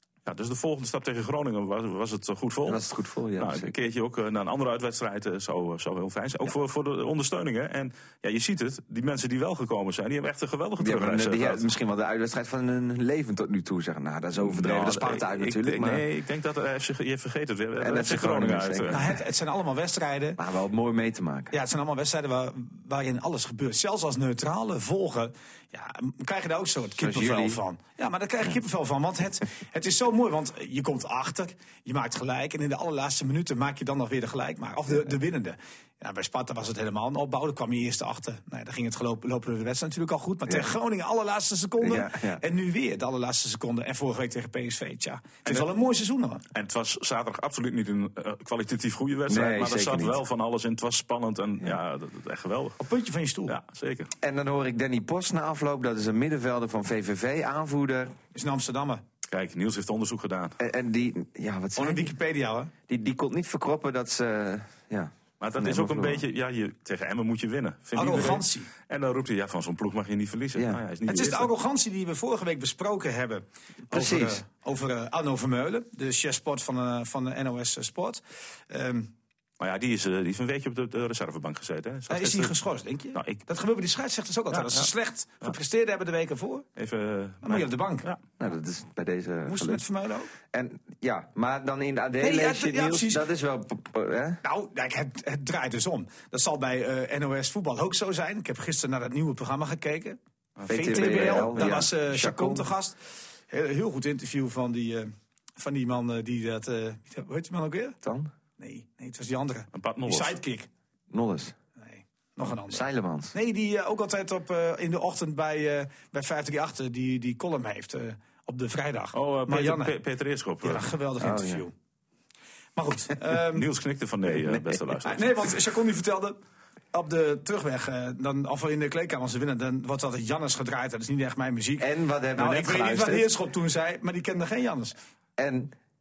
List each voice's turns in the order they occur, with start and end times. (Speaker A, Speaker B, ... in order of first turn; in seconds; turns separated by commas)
Speaker A: 0.2-2.8, Speaker B: 2.6-3.7, Speaker A: 3.4-11.7, Speaker B: 10.8-16.1, Speaker A: 14.4-19.1, Speaker B: 17.8-19.1, Speaker C: 18.9-20.4, Speaker B: 20.4-21.5, Speaker C: 21.5-46.4, Speaker B: 27.0-27.6, Speaker B: 41.8-42.4, Speaker A: 46.5-52.8, Speaker B: 49.3-50.2, Speaker C: 52.8-53.5, Speaker A: 53.5-54.1, Speaker B: 54.2-58.1, Speaker C: 58.3-59.0, Speaker A: 59.3-60.6, Speaker B: 60.6-62.1, Speaker C: 61.8-62.7, Speaker B: 62.9-66.2, Speaker A: 65.4-71.5, Speaker C: 68.0-68.7, Speaker C: 71.1-79.1, Speaker B: 73.9-74.4, Speaker A: 79.6-82.5, Speaker C: 82.1-86.7, Speaker A: 83.2-83.5, Speaker A: 84.5-84.9, Speaker A: 86.8-88.2, Speaker C: 87.4-88.1, Speaker B: 88.4-89.8, Speaker C: 89.5-90.3, Speaker B: 90.5-94.4, Speaker C: 92.2-93.2, Speaker C: 94.4-103.0, Speaker A: 100.6-101.5, Speaker B: 100.7-102.7, Speaker C: 103.5-108.0, Speaker B: 108.0-108.3, Speaker C: 108.6-110.7, Speaker A: 109.7-110.4, Speaker B: 111.1-111.6, Speaker C: 111.8-120.0, Speaker B: 112.7-113.3, Speaker A: 119.1-120.9, Speaker C: 120.6-121.7, Speaker B: 121.2-121.6, Speaker C: 122.8-123.7, Speaker A: 123.4-125.5, Speaker B: 124.3-124.7, Speaker C: 125.0-126.4, Speaker C: 126.9-135.0, Speaker B: 131.8-133.3, Speaker B: 135.4-135.7